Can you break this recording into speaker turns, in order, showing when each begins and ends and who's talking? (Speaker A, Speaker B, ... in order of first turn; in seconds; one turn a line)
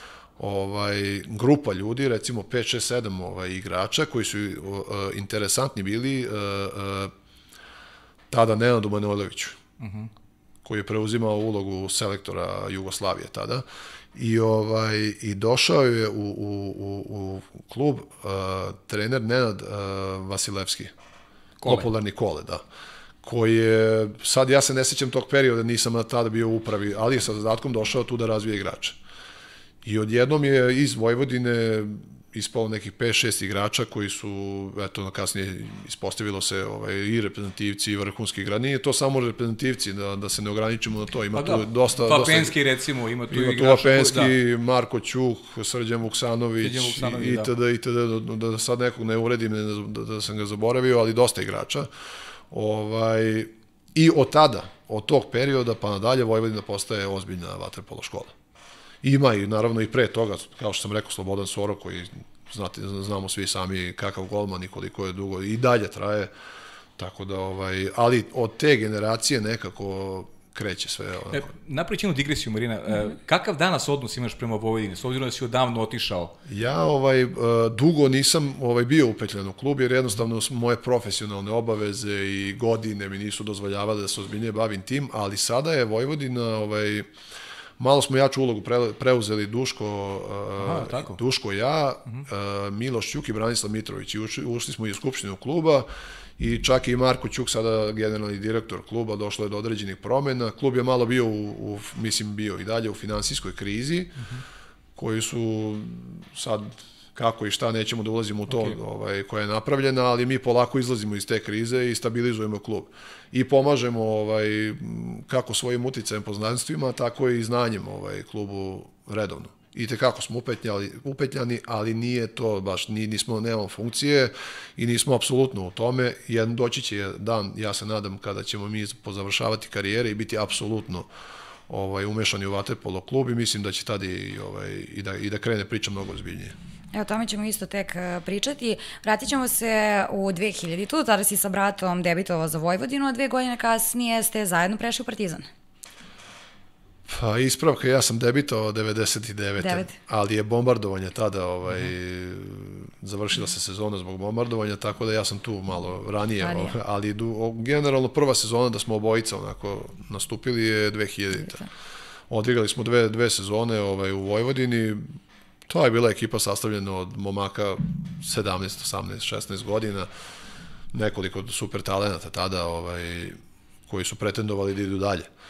Speaker A: 0.4-7.1
Speaker A: 8.3-9.6
Speaker B: 9.8-10.1
Speaker A: 10.7-20.9
Speaker B: 21.6-21.9
Speaker A: 21.6-22.6
Speaker A: 23.2-29.0
Speaker A: 29.8-42.6
Speaker B: 41.4-44.4
Speaker A: 43.3-51.9
Speaker B: 46.6-47.5
Speaker A: 52.5-58.3
Speaker A: 59.0-66.3
Speaker A: 67.0-71.5
Speaker B: 71.3-76.3
Speaker A: 76.5-87.1
Speaker A: 87.8-95.9
Speaker B: 90.6-91.2
Speaker A: 96.4-104.2
Speaker A: 105.0-131.1
Speaker B: 108.5-108.8
Speaker A: 131.7-136.6
Speaker C: 136.9-145.5
Speaker A: 147.1-161.7
Speaker C: 149.6-149.9
Speaker C: 156.4-156.7
Speaker A: 162.3-165.1
Speaker A: 165.7-170.1
Speaker A: 170.9-173.4
Speaker A: 173.9-175.3